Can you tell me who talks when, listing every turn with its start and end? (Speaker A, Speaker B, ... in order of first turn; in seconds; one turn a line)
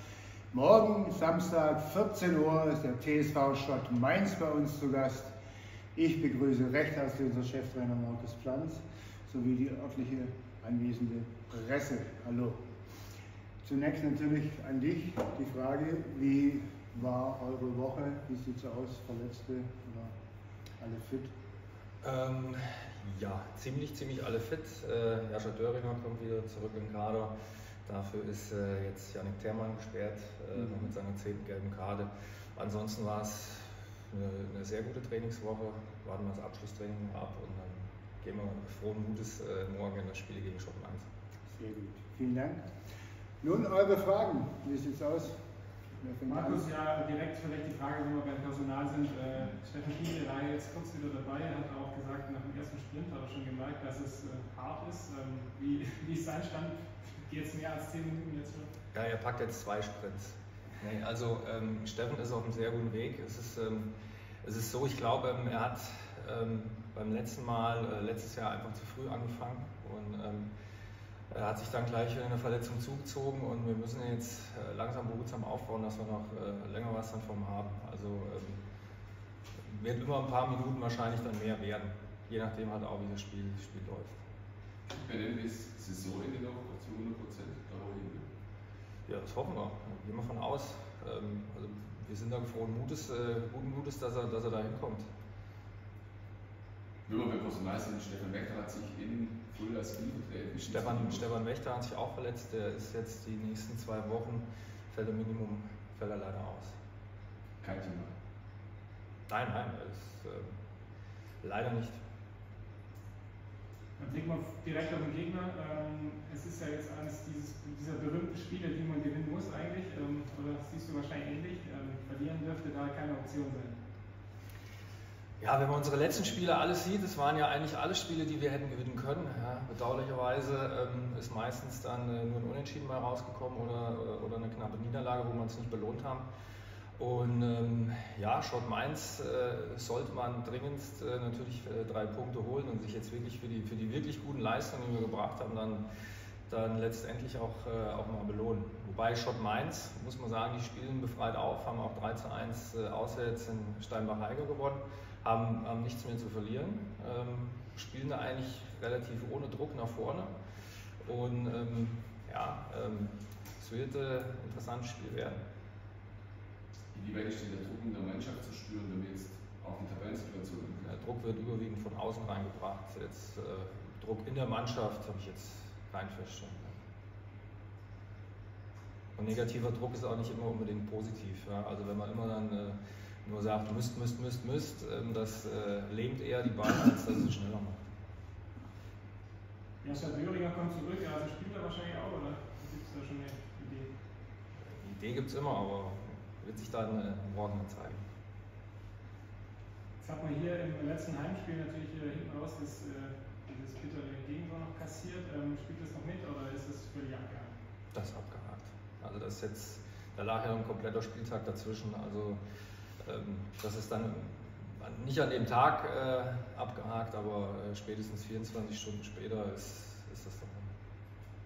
Speaker A: 0.5-5.3
Speaker A: 5.9-12.6
Speaker A: 13.6-20.1
Speaker A: 20.8-21.3
Speaker B: 22.0-27.3
Speaker B: 27.8-41.0
Speaker A: 41.5-42.7
Speaker A: 43.4-45.4
Speaker A: 46.0-46.7
Speaker C: 46.3-58.7
Speaker B: 58.9-63.9
Speaker B: 64.4-70.5
Speaker B: 71.3-78.6
Speaker B: 79.6-84.2
Speaker D: 84.9-88.2
Speaker B: 89.1-95.0
Speaker D: 97.0-101.3
Speaker B: 100.6-106.8
Speaker D: 107.6-108.1
Speaker B: 109.3-110.5
Speaker B: 111.4-112.0
Speaker C: 114.0-123.8
Speaker B: 125.4-136.3
Speaker B: 137.0-145.8
Speaker B: 146.5-160.3
Speaker B: 161.0-165.4
Speaker D: 166.9-170.9
Speaker B: 170.8-176.8
Speaker B: 179.2-187.8
Speaker C: 189.8-193.9
Speaker B: 194.7-198.0
Speaker C: 200.0-207.5
Speaker B: 207.9-212.4
Speaker B: 213.0-220.7